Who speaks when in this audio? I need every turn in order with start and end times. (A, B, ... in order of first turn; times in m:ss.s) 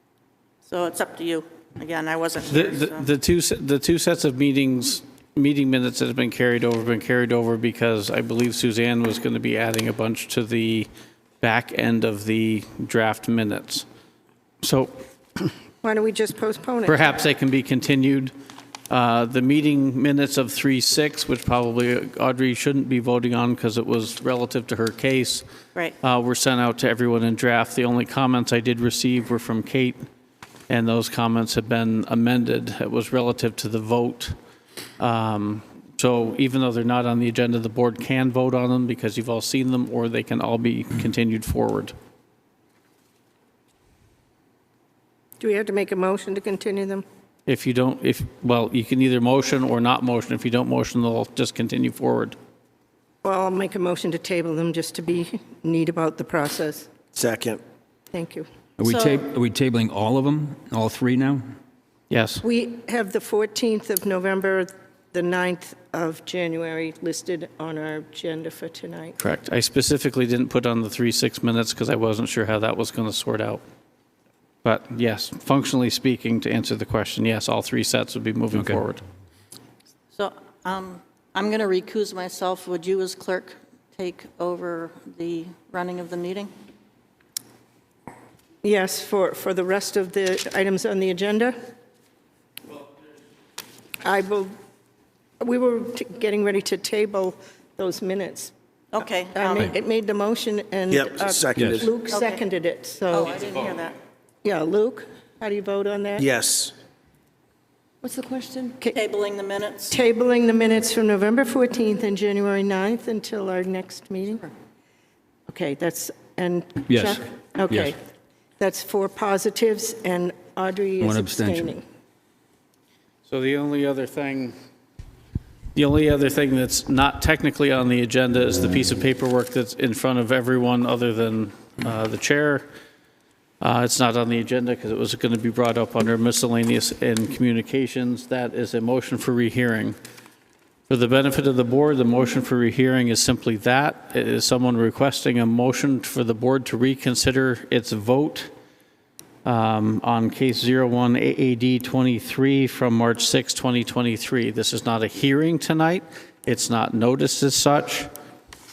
0:00.7-0:03.1 A
0:02.5-0:10.9 B
0:11.4-0:13.8 B
0:14.6-0:15.5 B
0:15.8-0:17.1 C
0:16.8-0:18.3 B
0:18.9-0:25.4 B
0:26.0-0:30.0 B
0:30.7-0:34.4 B
0:35.0-0:41.9 B
0:45.4-0:47.0 C
0:47.5-0:52.3 B
0:53.2-0:56.9 C
0:57.1-0:57.6 D
0:58.1-0:58.5 C
0:58.8-1:01.4 E
0:58.8-0:59.2 A
1:02.1-1:02.4 B
1:02.4-1:09.2 C
1:09.2-1:13.6 B
1:14.6-1:19.0 B
1:20.1-1:26.5 A
1:28.6-1:31.6 C
1:34.0-1:34.5 C
1:35.4-1:38.5 C
1:38.9-1:39.7 A
1:39.3-1:43.3 C
1:40.9-1:41.9 D
1:41.6-1:41.8 E
1:42.1-1:42.4 A
1:43.1-1:44.0 A
1:44.4-1:46.2 C
1:46.2-1:46.7 D
1:48.1-1:49.0 C
1:48.9-1:49.9 A
1:49.9-1:54.5 C
1:55.5-1:58.0 C
1:56.9-1:57.9 E
1:58.6-2:01.8 C
2:01.0-2:01.8 E
2:03.2-2:04.5 B
2:05.8-2:12.7 B
2:13.6-2:20.0 B
2:20.9-2:28.5 B
2:29.4-2:38.1 B